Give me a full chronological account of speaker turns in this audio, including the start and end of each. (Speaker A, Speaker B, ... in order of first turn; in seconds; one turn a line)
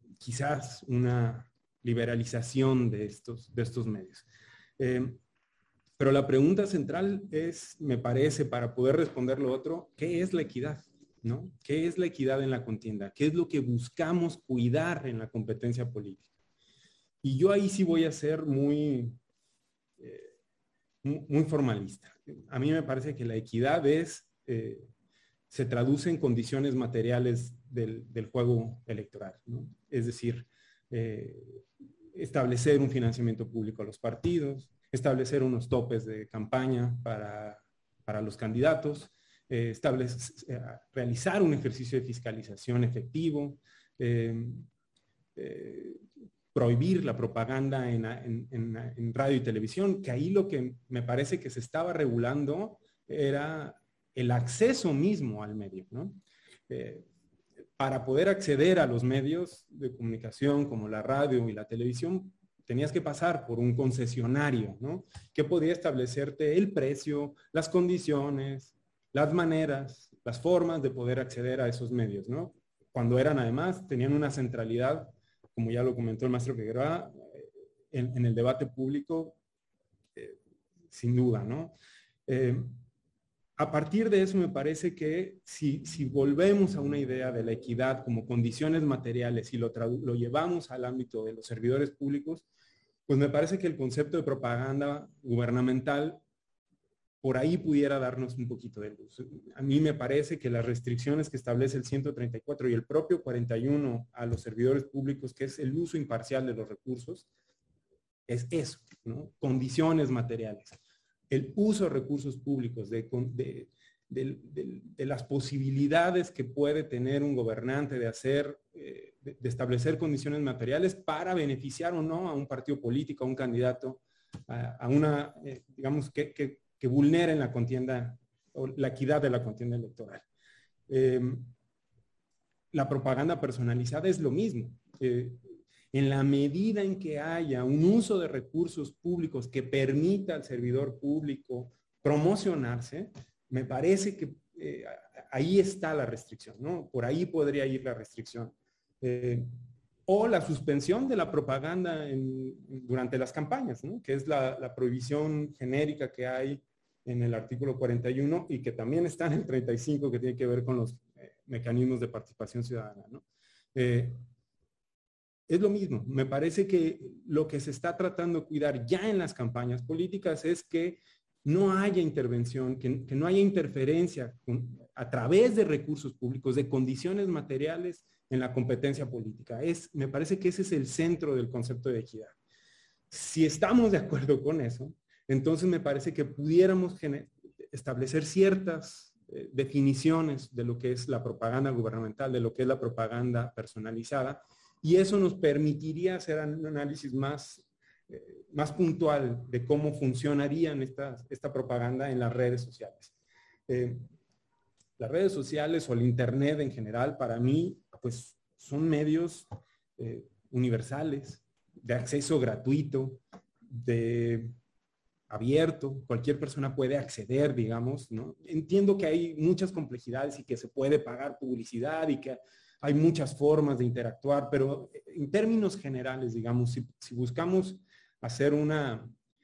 Speaker A: 0.2-4.3
Speaker A: 4.8-5.2
Speaker A: 6.0-16.3
Speaker A: 17.2-19.2
Speaker A: 20.0-20.3
Speaker A: 21.0-24.9
Speaker A: 25.5-31.6
Speaker A: 32.1-44.7
Speaker A: 45.4-56.2
Speaker A: 56.7-57.1
Speaker A: 57.8-79.4
Speaker A: 80.9-81.8
Speaker A: 82.3-82.7
Speaker A: 83.6-92.5
Speaker A: 93.1-96.2
Speaker A: 97.2-107.3
Speaker A: 108.3-110.8
Speaker A: 111.3-130.3
Speaker A: 130.9-131.5
Speaker A: 132.7-149.5
Speaker A: 150.1-164.2
Speaker A: 165.5-182.4
Speaker A: 183.1-203.1
Speaker A: 203.7-204.0
Speaker A: 205.0-209.5
Speaker A: 210.0-214.6
Speaker A: 215.3-229.1